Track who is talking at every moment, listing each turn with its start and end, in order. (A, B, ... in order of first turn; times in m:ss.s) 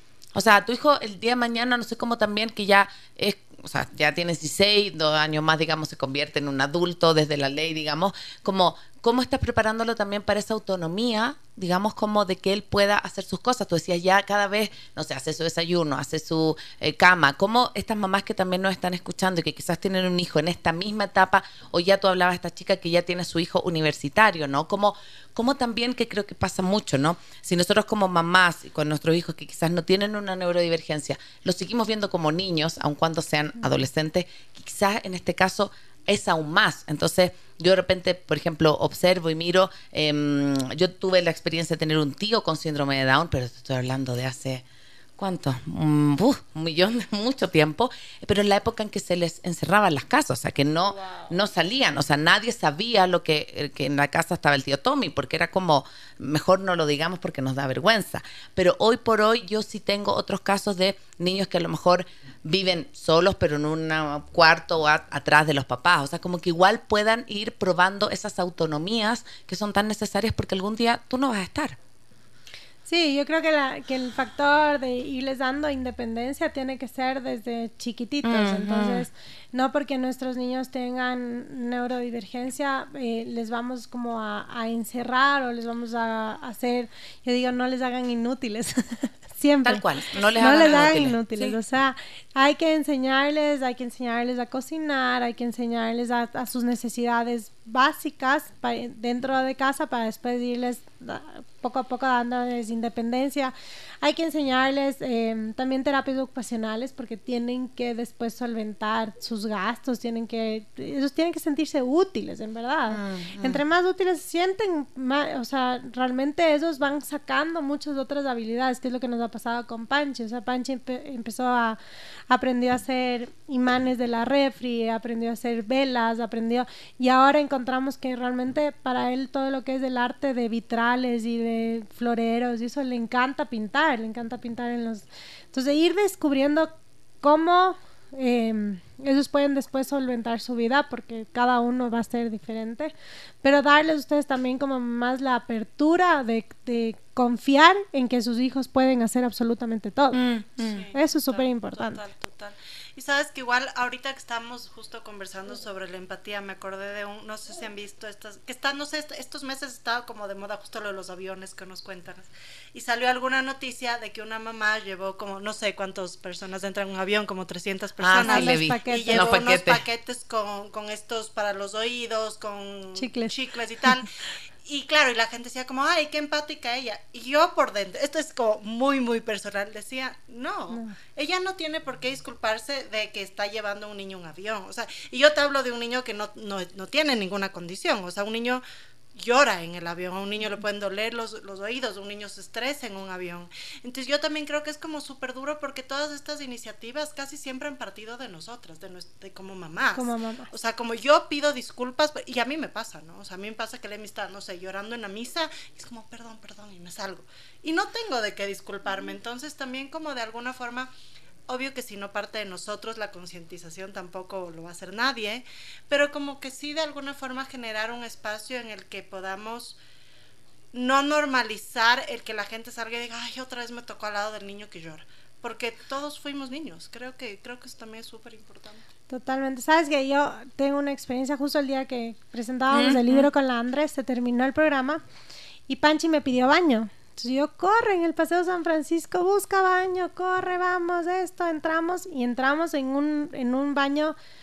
0:00.4-0:44.6 A
0:45.2-1:11.8 A
0:51.0-0:51.3 B
1:12.9-1:29.8 C
1:18.2-1:19.1 A
1:29.6-1:31.2 A
1:30.2-1:31.5 B
1:30.4-2:01.8 C
1:52.9-1:53.6 A
2:02.3-2:16.7 C
2:17.2-2:30.2 C
2:30.1-2:30.8 A
2:30.6-2:54.1 B
2:30.9-2:32.0 C
2:48.0-2:49.8 A
2:48.2-2:49.4 C
2:53.0-2:53.4 C
2:54.6-3:08.6 B
3:00.7-3:01.0 C
3:09.2-3:30.9 B
3:20.0-3:20.5 C
3:31.5-3:39.8 B
3:40.7-3:48.8 B
3:49.1-3:55.0 C
3:52.7-3:53.0 A
3:55.7-4:04.2 C